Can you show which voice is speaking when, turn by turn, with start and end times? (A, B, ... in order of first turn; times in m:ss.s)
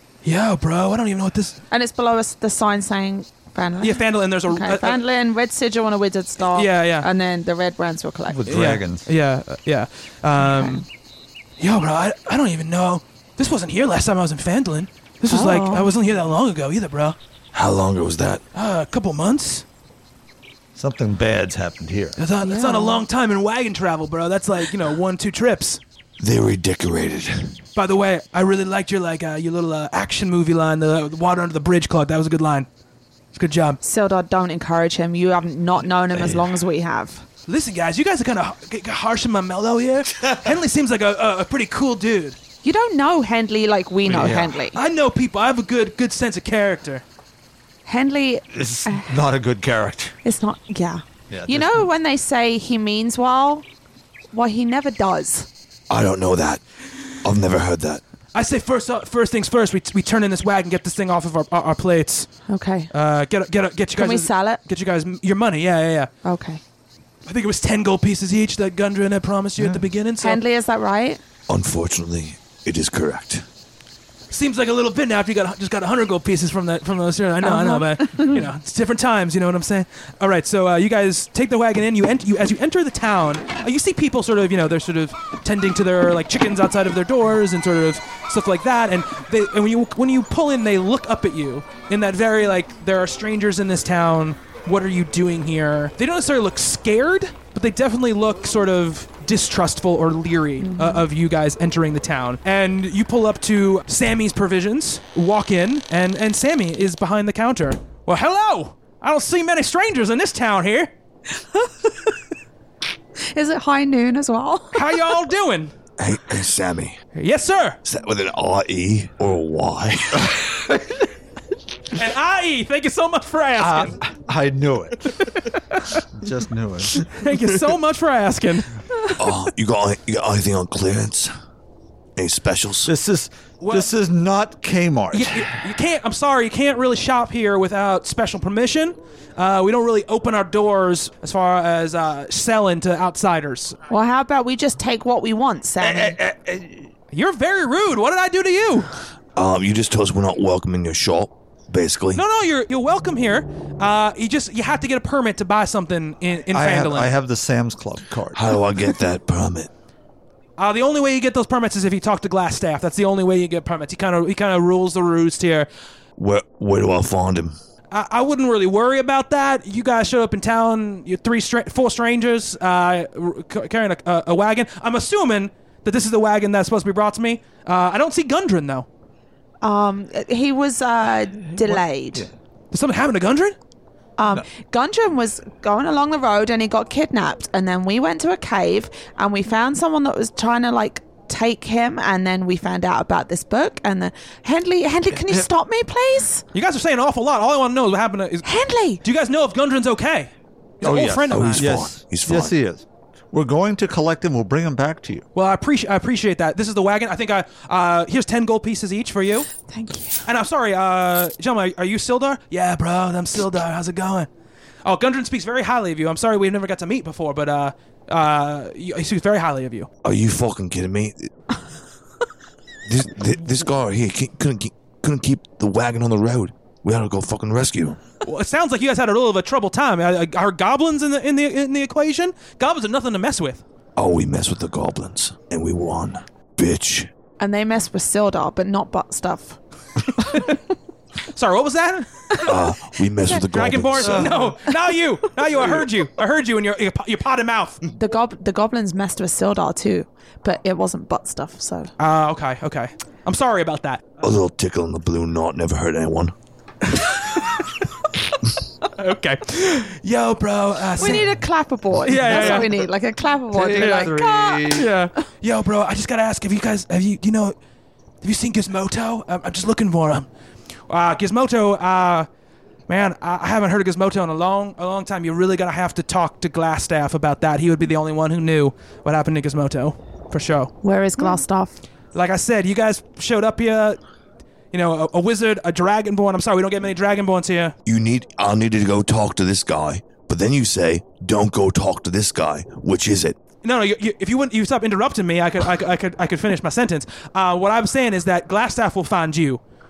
0:00.2-0:01.6 A
0:01.7-0:08.4 B
0:03.8-0:05.0 A
0:06.5-0:07.1 A
0:08.3-0:09.1 C
0:08.5-0:10.8 A
0:10.4-0:10.8 B
0:11.6-0:17.2 A
0:15.3-0:15.9 B
0:17.5-0:18.4 D
0:18.5-0:19.6 A
0:20.7-0:22.2 C
0:22.2-0:25.8 A
0:22.4-0:23.0 B
0:26.2-0:27.6 D
0:27.8-0:32.7 A
0:33.3-0:33.8 A
0:33.8-0:37.2 B
0:37.5-0:42.4 A
0:42.6-0:44.8 B
0:44.1-0:44.6 C
0:44.1-0:47.0 A
0:47.8-0:49.1 B
0:48.5-0:50.2 C
0:50.2-0:53.6 B
0:51.3-0:51.9 C
0:54.3-0:55.5 B
0:55.9-0:56.6 D
0:57.2-0:58.0 D
0:58.3-1:02.3 A
1:02.5-1:02.9 B
1:02.9-1:06.1 A
1:03.9-1:04.6 B
1:06.2-1:06.6 B
1:07.2-1:10.4 A
1:10.2-1:11.2 B
1:11.5-1:13.4 D
1:14.3-1:50.9 A
1:17.4-1:18.4 B
1:40.6-1:41.0 B
1:51.4-1:52.1 B
1:53.2-1:55.0 B
1:54.7-1:55.7 A
1:56.0-1:57.0 D
1:57.1-1:57.8 A
1:57.8-2:00.5 D
2:01.9-2:04.0 A
2:03.6-2:05.2 C
2:05.2-2:06.0 A
2:06.1-2:07.0 C
2:07.0-2:08.7 A
2:09.1-2:11.3 D
2:12.2-2:12.9 D
2:12.8-2:15.4 C
2:13.6-2:13.9 A
2:15.1-2:23.8 A
2:23.9-2:26.2 B
2:25.8-2:26.9 C
2:27.1-2:28.9 A
2:29.4-2:32.2 D
2:32.1-2:37.1 A
2:36.5-2:38.6 C
2:38.3-2:39.7 D
2:40.6-2:45.7 A
2:46.2-2:47.5 D
2:47.9-2:58.9 A
2:59.6-3:02.2 B
3:01.5-3:02.3 C
3:02.7-3:03.5 A
3:04.2-3:16.4 B
3:16.5-3:21.7 A
3:18.4-3:19.0 B
3:20.8-3:25.2 C
3:21.3-3:22.5 D
3:25.3-3:29.5 A
3:29.7-3:30.2 B
3:30.2-3:34.3 A
3:34.8-3:39.9 A
3:40.0-3:41.3 D
3:42.8-3:48.0 D
3:48.2-3:53.6 A
3:54.0-3:57.1 D
3:57.4-3:59.6 B
4:00.2-4:00.5 B
4:00.3-4:00.6 A
4:01.2-4:02.5 A
4:02.4-4:04.4 D
4:03.4-4:07.8 A
4:04.0-4:04.5 C
4:08.0-4:11.9 B
4:12.0-4:14.0 A
4:14.2-4:16.3 D
4:16.9-4:17.8 A
4:18.9-4:21.3 A
4:21.0-4:24.8 B
4:22.0-4:22.7 A
4:22.2-4:22.7 C
4:23.5-4:24.9 C
4:23.7-4:24.1 A
4:24.7-4:27.6 A
4:28.2-4:30.3 A
4:30.9-4:32.3 A
4:32.9-4:41.4 A
4:40.8-4:41.8 B
4:42.1-4:44.0 A
4:44.7-4:47.7 A
4:47.8-4:53.4 D
4:53.6-4:59.6 A